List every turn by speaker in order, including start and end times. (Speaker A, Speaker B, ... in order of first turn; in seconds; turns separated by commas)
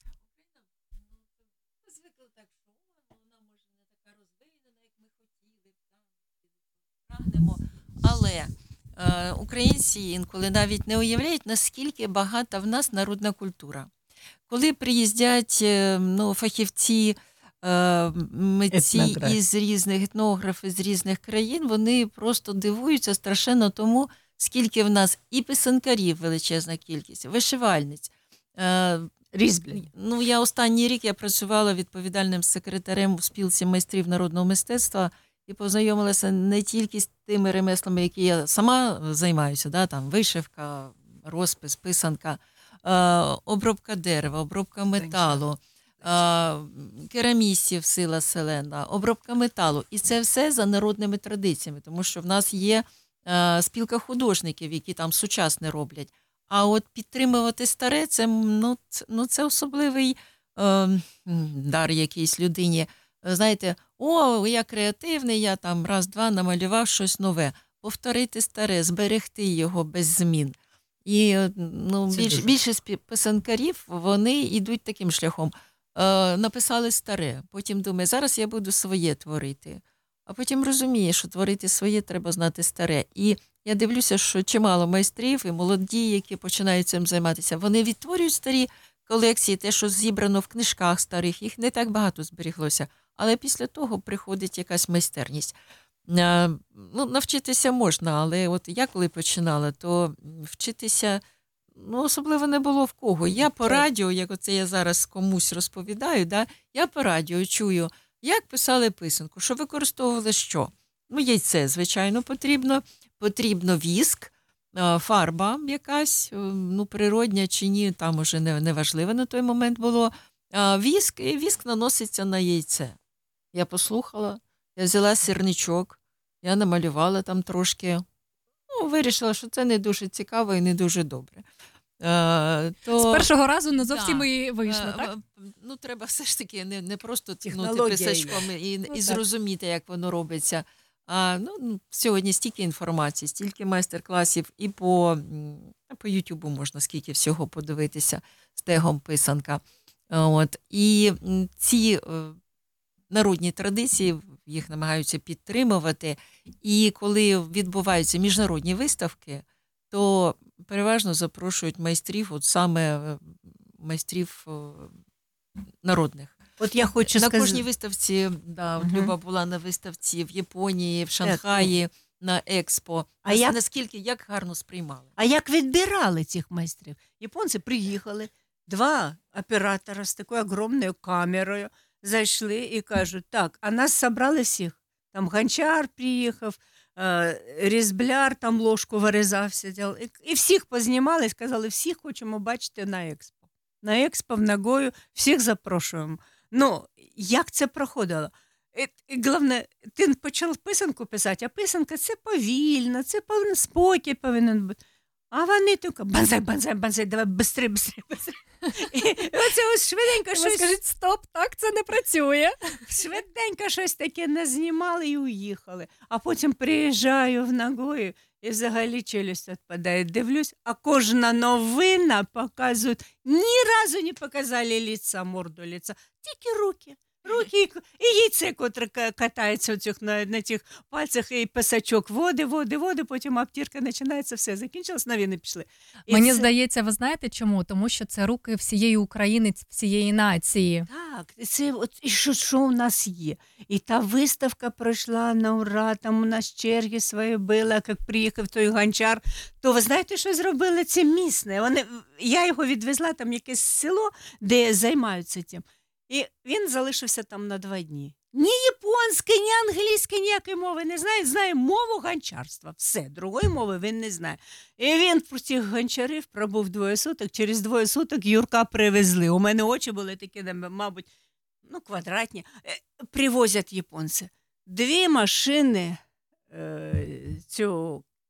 Speaker A: 0.4-1.2, Speaker A: 1.8-6.0, Speaker A: 7.0-13.9, Speaker A: 14.5-29.2, Speaker B: 18.7-19.4, Speaker B: 29.3-29.9, Speaker A: 29.7-95.5, Speaker B: 44.9-45.5, Speaker B: 46.0-46.3, Speaker B: 72.1-72.5, Speaker A: 96.1-101.2, Speaker A: 101.7-123.0, Speaker B: 103.4-103.8, Speaker A: 123.5-128.0, Speaker A: 128.7-131.4, Speaker A: 132.0-152.4, Speaker C: 132.8-135.1, Speaker B: 137.4-139.2, Speaker A: 153.1-164.9, Speaker A: 165.8-166.4, Speaker B: 166.6-167.6, Speaker A: 167.0-175.1, Speaker B: 168.8-169.1, Speaker B: 171.2-171.7, Speaker B: 173.2-173.5, Speaker B: 175.2-204.8, Speaker B: 205.3-210.7, Speaker C: 210.3-212.8, Speaker B: 212.8-236.5, Speaker C: 236.1-240.9, Speaker B: 240.9-271.1, Speaker B: 271.6-278.1